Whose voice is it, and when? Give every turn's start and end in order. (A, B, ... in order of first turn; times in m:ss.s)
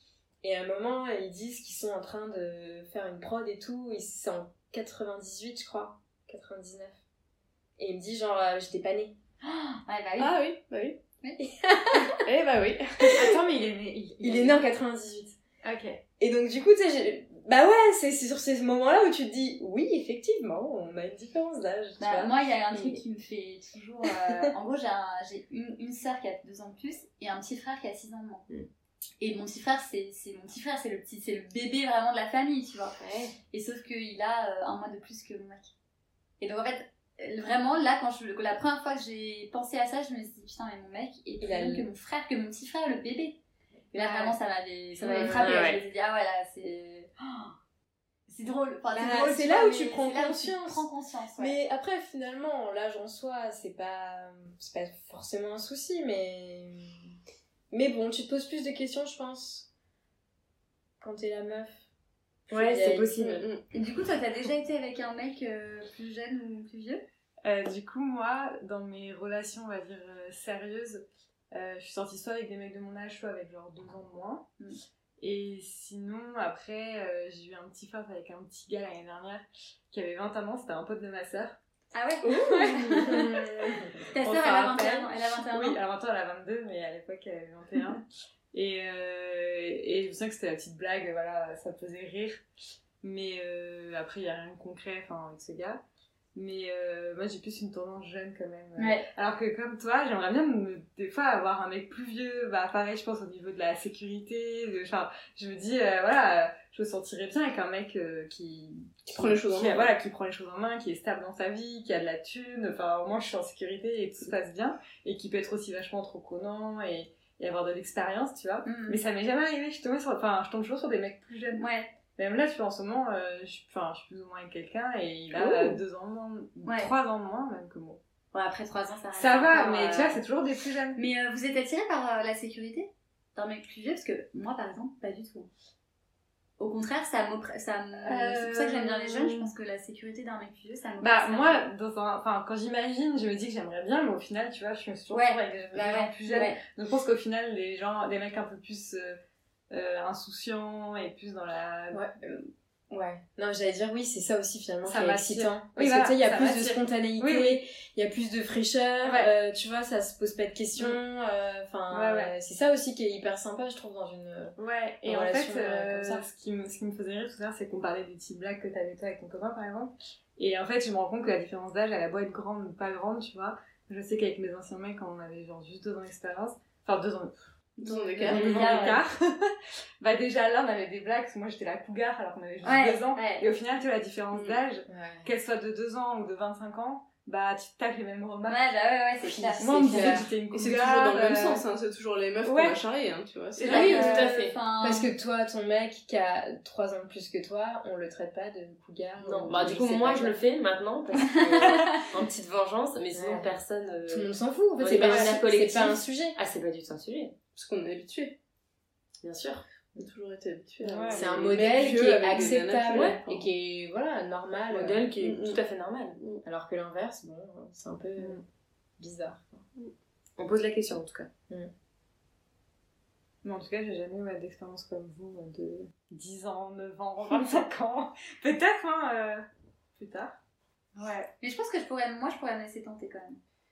0:00.4-0:07.0 A
0:07.8-0:09.2 A
0:09.4-0:10.4 B
0:10.2-0:11.0 C
0:11.4-0:12.2 A
0:12.1-0:13.2 C
0:13.1-0:14.6 D
0:14.2-0:15.4 A
0:15.6-0:16.0 D
0:16.2-0:22.9 A
0:22.0-0:28.4 B
0:29.2-0:33.0 B
0:33.0-0:33.4 A
0:33.5-0:35.7 B
0:36.4-0:43.4 B
0:41.4-0:41.9 A
0:43.9-0:47.5 B
0:43.9-0:44.4 A
0:45.0-0:45.8 A
0:45.2-0:45.8 E
0:48.3-0:51.6 B
0:48.9-0:50.8 A
0:51.4-0:57.1 A
0:57.7-0:59.7 A
1:01.0-1:01.9 A
1:02.5-1:03.2 A
1:02.5-1:03.5 E
1:03.2-1:03.6 C
1:03.7-1:07.0 B
1:07.4-1:14.5 D
1:15.2-1:21.6 D
1:21.9-1:23.4 B
1:22.9-1:23.3 D
1:22.9-1:23.9 A
1:23.8-1:32.4 D
1:24.1-1:25.8 B
1:33.0-1:35.8 D
1:36.4-2:08.0 D
1:38.8-1:39.1 B
1:49.1-1:49.9 C
1:58.6-1:59.0 B
2:01.6-2:02.0 B
2:06.6-2:06.9 B
2:08.3-2:10.2 B
2:09.2-2:11.0 D
2:11.0-2:15.5 B
2:16.6-2:21.7 B
2:18.0-2:19.5 D
2:21.0-2:29.2 D
2:25.1-2:26.6 B
2:29.7-2:32.1 D
2:31.9-2:46.3 A
2:34.8-2:37.6 D
2:39.0-2:39.3 D
2:41.9-2:42.3 D
2:44.6-2:57.4 D
2:57.8-2:59.0 C
2:57.8-2:59.0 B
2:58.2-3:08.6 D
3:02.6-3:03.5 B
3:04.3-3:04.6 C
3:04.9-3:05.3 A
3:08.5-3:09.8 B
3:09.2-3:10.3 A
3:09.6-3:11.6 D
3:09.9-3:14.1 C
3:12.4-3:12.8 D
3:13.6-3:14.3 D
3:13.7-3:15.1 B
3:13.7-3:14.1 A
3:13.7-3:14.6 E
3:14.8-3:20.4 A
3:19.2-3:27.3 E
3:23.1-3:23.5 A
3:24.1-3:26.4 A
3:25.0-3:25.4 D
3:27.5-3:28.4 C
3:29.2-3:29.6 E
3:30.0-3:33.5 C
3:30.8-3:31.6 D
3:31.1-3:35.1 A
3:32.9-3:33.2 E
3:34.7-3:36.2 E
3:35.2-3:35.6 C
3:36.4-3:38.4 A
3:38.2-3:38.4 D
3:39.0-3:39.6 A
3:40.4-3:41.3 E
3:43.4-3:49.4 D
3:50.0-3:50.4 D
3:51.0-3:51.3 D
3:51.4-3:53.4 B